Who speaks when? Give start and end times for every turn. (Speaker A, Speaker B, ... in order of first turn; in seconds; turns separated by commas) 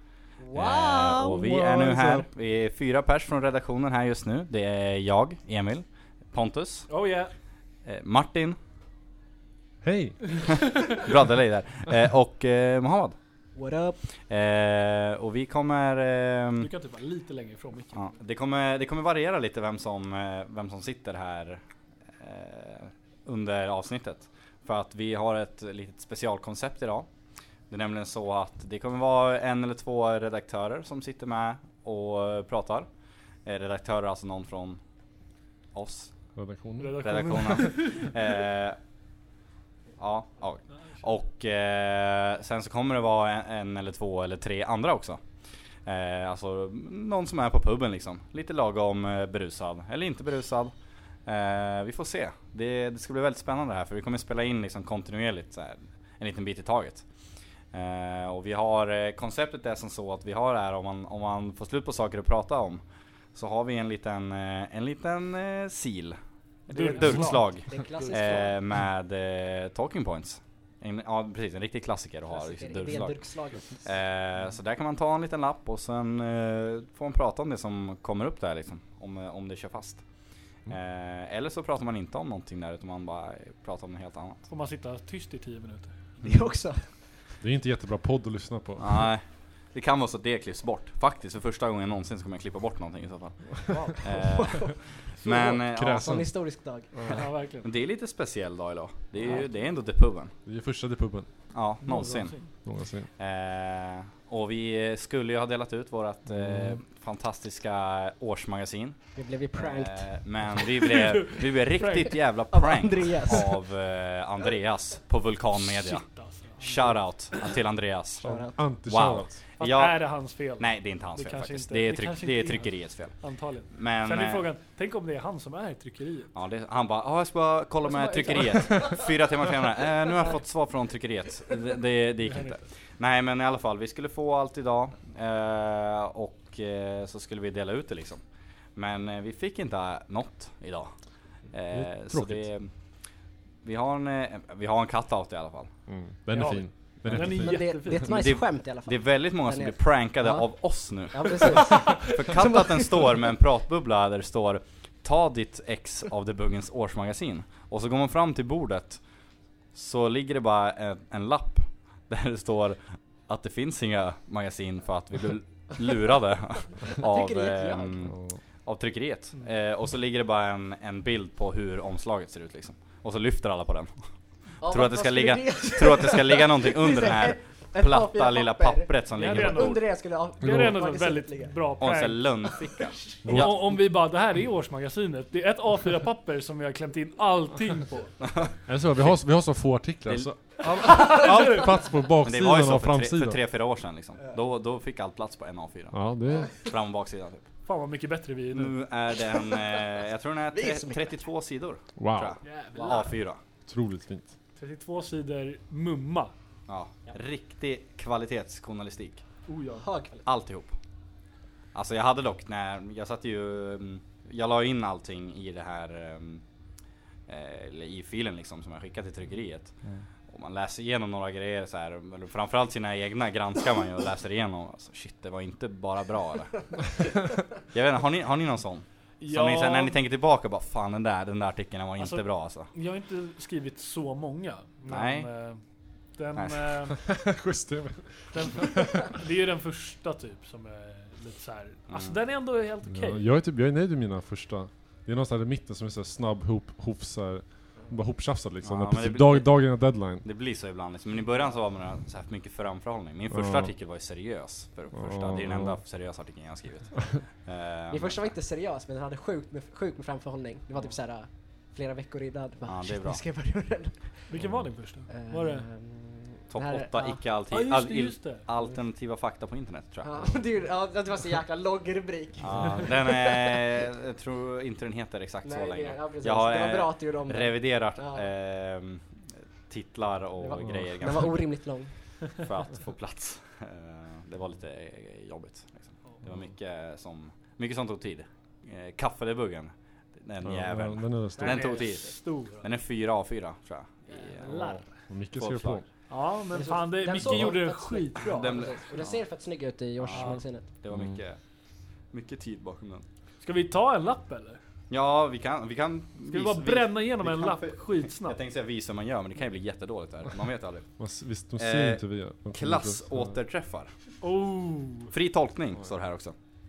Speaker A: 0.4-2.2, Speaker B: 0.5-7.0, Speaker C: 1.6-2.2, Speaker C: 6.9-7.3, Speaker B: 7.8-8.6, Speaker D: 9.8-10.4, Speaker B: 10.9-13.2, Speaker A: 13.5-14.0, Speaker B: 14.3-16.7, Speaker C: 16.6-18.1, Speaker B: 17.9-21.6, Speaker B: 22.2-27.1, Speaker B: 27.7-32.9, Speaker B: 33.4-34.8, Speaker B: 35.7-36.1, Speaker D: 36.3-37.6, Speaker C: 36.8-38.1, Speaker B: 37.0-38.8, Speaker B: 40.0-45.2, Speaker B: 45.8-50.7, Speaker B: 51.2-57.0, Speaker B: 57.7-62.8, Speaker B: 63.3-73.3, Speaker C: 66.7-68.2, Speaker A: 67.1-68.6, Speaker A: 72.3-73.8, Speaker B: 73.8-80.0, Speaker B: 80.7-84.5, Speaker C: 84.5-86.1, Speaker A: 86.2-86.8, Speaker D: 87.4-89.1, Speaker B: 88.8-96.0, Speaker A: 93.7-97.1, Speaker D: 95.2-96.3, Speaker D: 96.9-97.2, Speaker C: 97.1-97.7, Speaker B: 97.6-100.3, Speaker D: 100.4-101.5, Speaker B: 101.5-102.6, Speaker C: 101.8-102.5, Speaker D: 102.6-103.1, Speaker B: 103.2-124.4, Speaker D: 106.2-106.8, Speaker A: 109.1-110.2, Speaker C: 110.9-112.2, Speaker A: 112.5-113.6, Speaker C: 115.5-117.2, Speaker A: 118.2-118.6, Speaker D: 118.2-119.4, Speaker C: 119.6-126.3, Speaker B: 126.3-138.2, Speaker A: 127.9-129.0, Speaker C: 132.2-132.6, Speaker B: 138.7-140.9, Speaker B: 141.5-142.7, Speaker D: 141.7-142.5, Speaker B: 143.6-145.7, Speaker D: 145.9-147.9, Speaker C: 146.3-148.2, Speaker A: 147.1-153.2, Speaker B: 148.1-159.0, Speaker B: 159.7-179.8, Speaker A: 167.0-168.1, Speaker D: 168.1-168.4, Speaker A: 174.6-181.6, Speaker C: 179.1-182.3, Speaker B: 181.8-183.6, Speaker D: 183.2-183.8, Speaker C: 183.3-188.3, Speaker B: 188.2-189.2, Speaker D: 188.7-193.4, Speaker B: 190.0-190.3, Speaker C: 190.8-191.7, Speaker B: 192.2-197.4, Speaker D: 195.9-196.6, Speaker C: 197.7-198.8, Speaker B: 198.5-203.4, Speaker A: 200.5-201.1, Speaker D: 202.0-202.4, Speaker C: 202.4-203.1, Speaker A: 202.7-203.0, Speaker D: 203.7-204.3, Speaker C: 204.6-206.3, Speaker B: 206.7-209.2, Speaker C: 209.5-209.9, Speaker A: 209.8-210.2, Speaker B: 210.2-210.7, Speaker B: 211.7-216.4, Speaker B: 217.3-219.7, Speaker B: 220.3-226.7, Speaker B: 227.7-232.7, Speaker C: 229.2-230.0, Speaker C: 232.0-235.6, Speaker B: 234.9-235.3, Speaker C: 236.1-236.9, Speaker B: 236.3-236.6, Speaker D: 237.0-239.1, Speaker C: 238.3-243.2, Speaker B: 241.9-242.2, Speaker D: 242.9-250.2, Speaker B: 248.6-258.1, Speaker D: 253.3-253.7, Speaker D: 254.9-255.8, Speaker A: 257.9-264.3, Speaker B: 262.7-263.2, Speaker C: 264.3-265.6, Speaker D: 264.4-264.8, Speaker A: 265.1-267.4, Speaker B: 266.5-270.4, Speaker C: 267.5-268.4, Speaker A: 268.5-268.8, Speaker A: 270.0-273.5, Speaker B: 272.4-279.1, Speaker A: 275.4-278.3, Speaker B: 279.7-281.3, Speaker A: 280.4-281.9, Speaker D: 280.6-280.9, Speaker B: 282.4-294.5, Speaker D: 290.4-291.8, Speaker C: 291.4-292.7, Speaker A: 294.1-294.4, Speaker C: 294.4-294.8, Speaker D: 294.5-295.9, Speaker B: 295.3-295.8, Speaker C: 296.1-298.7, Speaker A: 296.5-300.7, Speaker B: 297.2-297.5, Speaker B: 298.3-299.2, Speaker B: 300.0-301.4, Speaker C: 300.1-300.4, Speaker B: 302.1-303.0, Speaker C: 303.4-304.6, Speaker B: 304.9-310.9, Speaker C: 306.3-308.4, Speaker D: 311.0-313.4, Speaker B: 311.6-313.9, Speaker C: 314.2-315.1, Speaker B: 315.1-316.3